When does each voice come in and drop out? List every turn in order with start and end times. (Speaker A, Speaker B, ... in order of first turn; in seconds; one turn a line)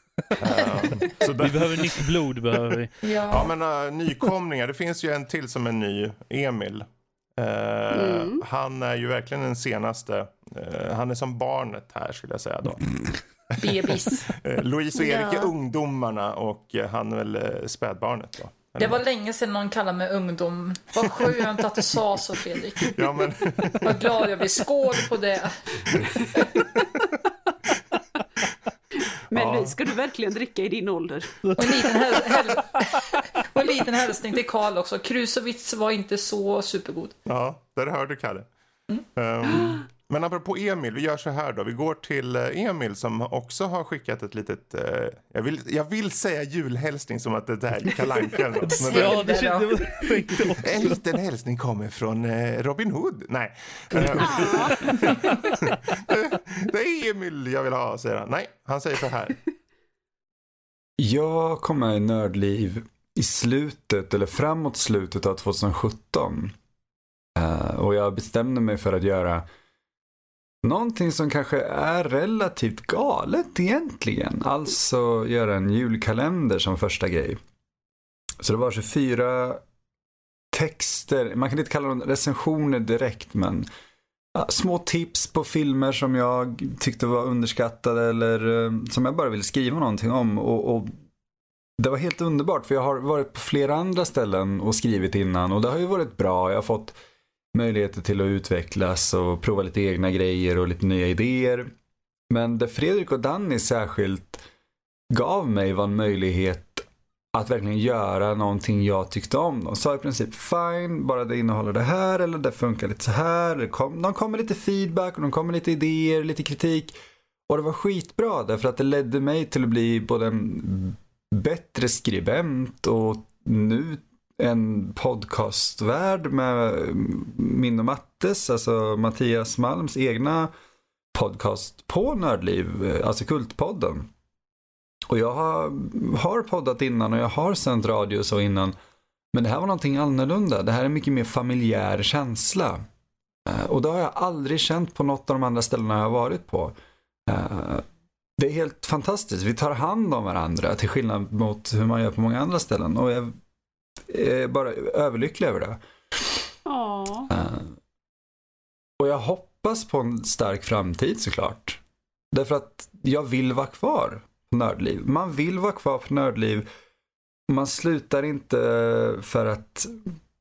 Speaker A: 0.4-2.0
Speaker B: 1.2-2.9
Speaker C: 3.0-3.5
Speaker A: 3.3-12.9
Speaker D: 7.9-8.4
Speaker C: 13.6-14.3
Speaker A: 14.3-19.0
Speaker C: 18.8-23.0
Speaker A: 22.9-24.2
Speaker C: 23.8-25.5
Speaker D: 29.3-31.4
Speaker A: 29.3-29.8
Speaker C: 31.6-37.1
Speaker A: 37.2-38.5
Speaker A: 39.1-49.3
Speaker B: 48.8-51.0
Speaker A: 50.6-59.4
Speaker D: 54.2-55.0
Speaker E: 61.0-66.5
Speaker E: 67.4-69.4
Speaker E: 70.6-77.4
Speaker E: 78.4-79.6
Speaker E: 80.5-83.7
Speaker E: 84.4-90.9
Speaker E: 91.8-97.0
Speaker E: 97.5-101.7
Speaker E: 102.3-104.4
Speaker E: 105.1-116.9
Speaker E: 117.5-130.5
Speaker E: 131.1-134.1
Speaker E: 135.1-138.7
Speaker E: 139.3-142.8
Speaker E: 143.5-146.8
Speaker E: 147.3-147.8
Speaker E: 148.4-153.3
Speaker E: 154.1-155.8
Speaker D: 156.7-157.3
Speaker E: 157.3-157.7
Speaker E: 159.0-161.8
Speaker E: 162.3-166.7
Speaker E: 167.5-169.9